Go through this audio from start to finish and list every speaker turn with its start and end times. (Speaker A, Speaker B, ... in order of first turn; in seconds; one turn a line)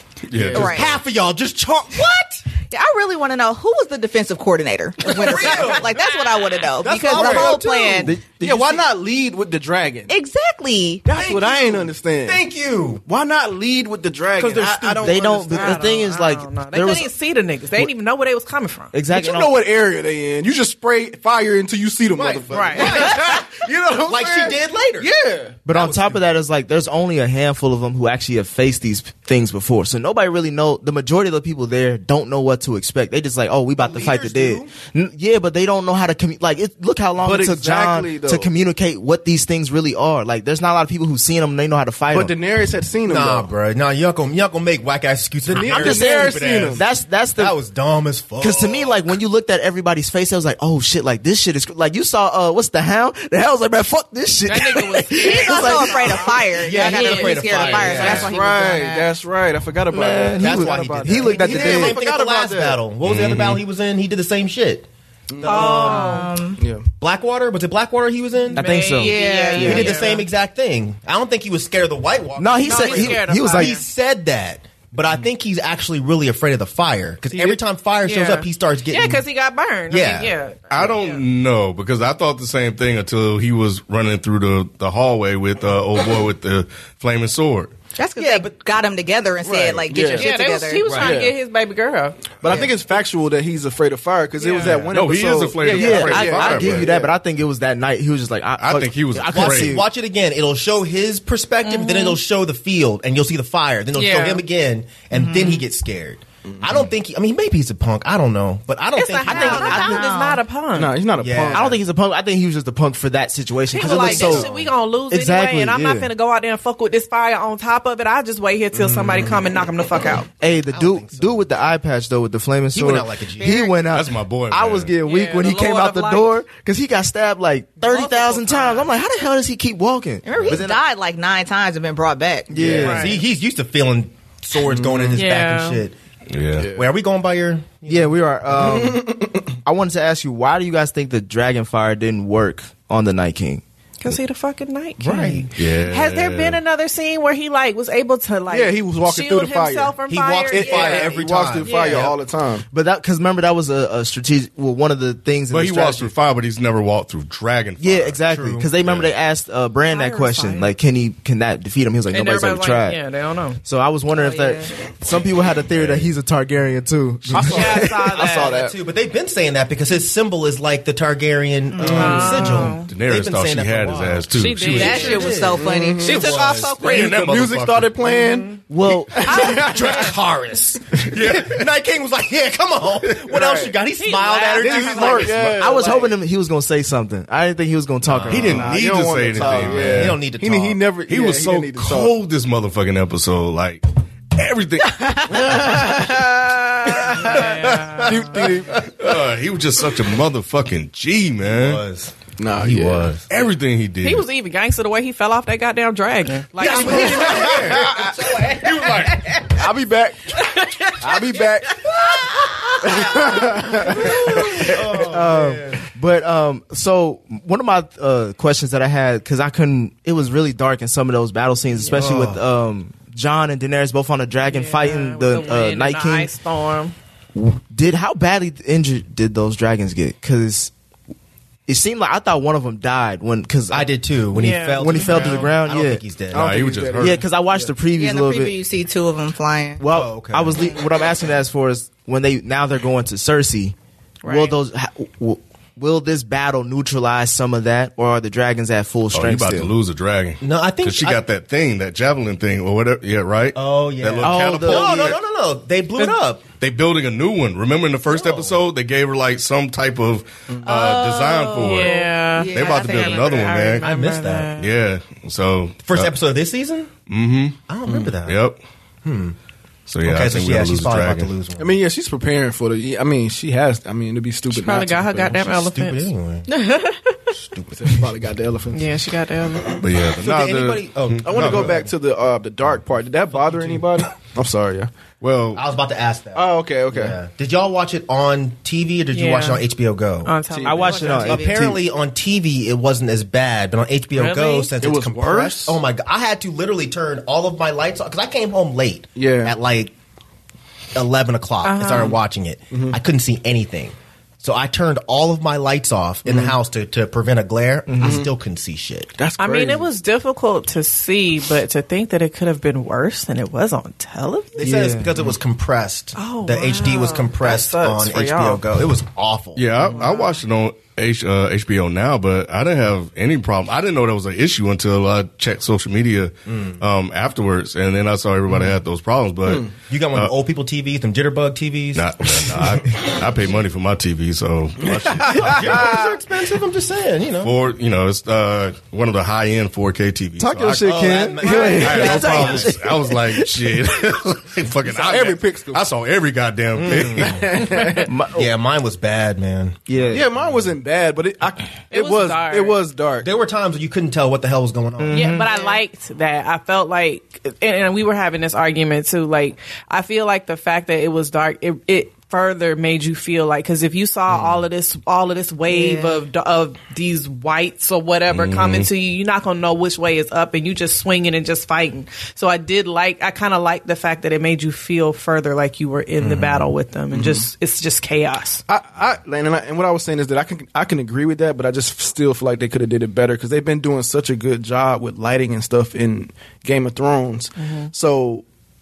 Speaker A: 0.3-1.0
Speaker B: 0.3-0.8
Speaker C: 0.5-2.4
Speaker D: 0.5-1.0
Speaker D: 2.7-8.2
Speaker C: 5.1-5.9
Speaker C: 6.8-8.2
Speaker B: 7.2-7.5
Speaker E: 8.0-8.8
Speaker B: 8.3-10.1
Speaker D: 10.1-11.1
Speaker B: 11.1-12.4
Speaker C: 11.1-13.1
Speaker B: 13.1-15.7
Speaker C: 14.4-15.3
Speaker E: 15.0-17.1
Speaker F: 15.5-18.9
Speaker E: 18.9-19.6
Speaker B: 19.1-25.9
Speaker C: 22.1-25.1
Speaker F: 22.5-23.2
Speaker E: 25.6-42.3
Speaker C: 25.7-26.1
Speaker C: 33.8-34.7
Speaker B: 37.2-38.5
Speaker B: 42.1-43.5
Speaker C: 43.1-46.8
Speaker B: 45.4-46.9
Speaker E: 45.6-47.6
Speaker C: 47.4-49.0
Speaker E: 48.4-56.1
Speaker F: 54.5-58.2
Speaker D: 55.1-59.1
Speaker C: 56.6-58.3
Speaker B: 58.0-62.8
Speaker E: 59.9-62.0
Speaker C: 60.4-64.9
Speaker D: 61.3-61.5
Speaker A: 63.0-63.6
Speaker B: 65.3-65.8
Speaker C: 65.4-66.1
Speaker F: 65.4-66.3
Speaker D: 65.6-66.6
Speaker B: 66.6-66.9
Speaker C: 67.0-68.7
Speaker E: 68.5-70.0
Speaker F: 68.5-70.3
Speaker D: 68.9-70.2
Speaker C: 69.6-79.2
Speaker E: 72.4-73.8
Speaker F: 72.6-73.8
Speaker F: 77.3-81.2
Speaker C: 79.9-80.3
Speaker A: 80.7-87.7
Speaker D: 88.0-91.0
Speaker F: 88.2-88.4
Speaker B: 89.5-90.3
Speaker F: 90.0-92.3
Speaker C: 90.9-91.2
Speaker B: 90.9-91.3
Speaker B: 92.4-97.1
Speaker F: 94.4-94.8
Speaker A: 94.7-96.9
Speaker E: 95.7-99.9
Speaker A: 98.6-99.8
Speaker C: 99.3-109.9
Speaker F: 101.6-102.2
Speaker F: 103.9-104.4
Speaker D: 105.1-105.6
Speaker B: 106.5-106.8
Speaker F: 108.9-111.0
Speaker D: 109.2-110.4
Speaker E: 109.3-110.1
Speaker B: 110.8-111.8
Speaker C: 111.2-111.8
Speaker E: 111.5-114.5
Speaker F: 113.7-120.3
Speaker C: 113.8-114.7
Speaker E: 115.1-116.1
Speaker B: 118.9-119.3
Speaker E: 120.4-130.8
Speaker C: 120.5-121.4
Speaker C: 122.7-123.8
Speaker A: 123.9-124.9
Speaker F: 125.0-126.4
Speaker F: 127.8-128.9
Speaker D: 130.2-132.8
Speaker E: 132.5-133.1
Speaker B: 132.6-133.0
Speaker F: 132.8-133.2
Speaker C: 132.8-136.0
Speaker B: 134.7-135.2
Speaker F: 135.2-135.8
Speaker A: 136.3-136.7
Speaker B: 136.6-136.9
Speaker C: 136.7-138.2
Speaker E: 137.9-143.6
Speaker B: 138.6-139.4
Speaker F: 144.0-152.1
Speaker E: 145.1-145.4
Speaker C: 145.1-145.4
Speaker A: 145.6-146.6
Speaker B: 148.5-150.0
Speaker C: 150.1-152.1
Speaker B: 150.5-152.7
Speaker E: 152.7-156.1
Speaker A: 155.5-158.2
Speaker E: 157.8-163.0
Speaker C: 158.3-158.7
Speaker A: 158.8-159.1
Speaker F: 159.9-160.7
Speaker F: 162.1-163.6
Speaker E: 163.6-168.1
Speaker D: 164.1-164.7
Speaker A: 165.7-166.1
Speaker B: 167.3-168.7
Speaker F: 167.4-168.6
Speaker C: 168.2-177.0
Speaker D: 171.7-172.7
Speaker F: 171.8-172.9
Speaker A: 172.8-175.2
Speaker F: 174.3-177.2
Speaker D: 174.7-176.6
Speaker B: 175.6-180.1
Speaker A: 176.7-177.9
Speaker E: 178.7-179.5
Speaker C: 179.2-185.5
Speaker F: 179.2-180.1
Speaker A: 181.0-181.6
Speaker B: 183.2-183.8
Speaker F: 184.0-185.4
Speaker B: 184.6-186.1
Speaker E: 185.6-188.9
Speaker C: 188.1-188.7
Speaker A: 188.3-190.2
Speaker B: 188.5-192.2
Speaker C: 189.3-190.8
Speaker E: 189.4-189.9
Speaker A: 191.1-195.8
Speaker B: 195.3-197.4
Speaker C: 197.0-199.1
Speaker F: 197.1-198.5
Speaker B: 198.0-198.8
Speaker A: 199.0-201.8
Speaker C: 201.4-203.2
Speaker B: 202.4-203.2
Speaker A: 202.7-204.2
Speaker F: 204.0-209.5
Speaker C: 206.6-209.1
Speaker B: 206.8-208.1
Speaker A: 207.8-209.5
Speaker B: 209.4-210.4
Speaker F: 210.3-214.4
Speaker B: 211.0-211.9
Speaker B: 212.8-215.0
Speaker C: 213.2-215.8
Speaker E: 214.9-226.3
Speaker C: 221.9-222.4
Speaker F: 224.4-226.9
Speaker E: 227.3-230.7
Speaker E: 231.7-233.9
Speaker C: 233.7-236.7
Speaker F: 234.3-235.6
Speaker E: 234.8-236.0
Speaker B: 236.3-237.7
Speaker A: 236.3-237.2
Speaker E: 237.0-238.6
Speaker D: 237.9-239.8
Speaker E: 239.8-243.8
Speaker C: 239.9-240.6
Speaker F: 244.2-244.6
Speaker E: 244.3-249.7
Speaker A: 249.1-255.2
Speaker C: 250.4-251.2
Speaker C: 253.6-256.4
Speaker E: 254.2-255.2
Speaker A: 256.6-263.9
Speaker C: 258.1-258.6
Speaker D: 260.6-263.8
Speaker F: 261.6-264.7
Speaker C: 263.8-264.6
Speaker A: 264.6-266.2
Speaker C: 265.9-266.9
Speaker A: 267.1-268.6
Speaker C: 267.7-268.4
Speaker C: 269.0-269.4
Speaker A: 269.9-271.3
Speaker C: 270.1-271.7
Speaker B: 271.6-275.5
Speaker F: 274.5-277.3
Speaker C: 275.5-276.5
Speaker C: 277.4-278.0
Speaker B: 277.7-278.9
Speaker F: 278.7-279.9
Speaker A: 279.7-281.8
Speaker C: 280.1-281.9
Speaker B: 281.2-284.9
Speaker A: 285.2-285.6
Speaker C: 285.6-290.4
Speaker B: 286.3-287.2
Speaker F: 289.1-289.6
Speaker F: 290.2-291.6
Speaker B: 290.5-291.3
Speaker E: 290.6-291.8
Speaker C: 291.2-299.9
Speaker F: 294.1-294.7
Speaker B: 294.8-295.8
Speaker B: 299.2-299.6
Speaker C: 300.9-309.1
Speaker F: 301.6-302.2
Speaker B: 302.7-303.0
Speaker B: 306.2-306.6
Speaker E: 307.9-308.2
Speaker B: 308.0-308.3
Speaker B: 309.2-309.9
Speaker F: 309.4-314.7
Speaker C: 314.6-319.6
Speaker E: 314.6-315.3
Speaker F: 316.2-318.6
Speaker A: 319.6-330.3
Speaker F: 319.9-320.4
Speaker C: 326.5-326.8
Speaker B: 329.5-329.7
Speaker C: 329.9-332.8
Speaker A: 331.9-335.9
Speaker B: 334.9-336.1
Speaker C: 335.3-337.5
Speaker A: 337.4-340.9
Speaker E: 340.4-343.7
Speaker C: 340.8-342.7
Speaker A: 341.5-347.6
Speaker B: 344.9-345.8
Speaker C: 346.8-350.7
Speaker B: 347.1-348.1
Speaker E: 348.0-348.5
Speaker E: 349.9-350.3
Speaker B: 350.1-353.3
Speaker F: 351.9-352.8
Speaker C: 353.2-355.4
Speaker E: 355.0-355.5
Speaker F: 355.1-378.6
Speaker C: 364.3-364.6
Speaker D: 365.7-366.2
Speaker A: 368.3-368.9
Speaker C: 376.2-376.7
Speaker B: 377.1-377.4
Speaker B: 378.7-388.4
Speaker F: 387.6-387.9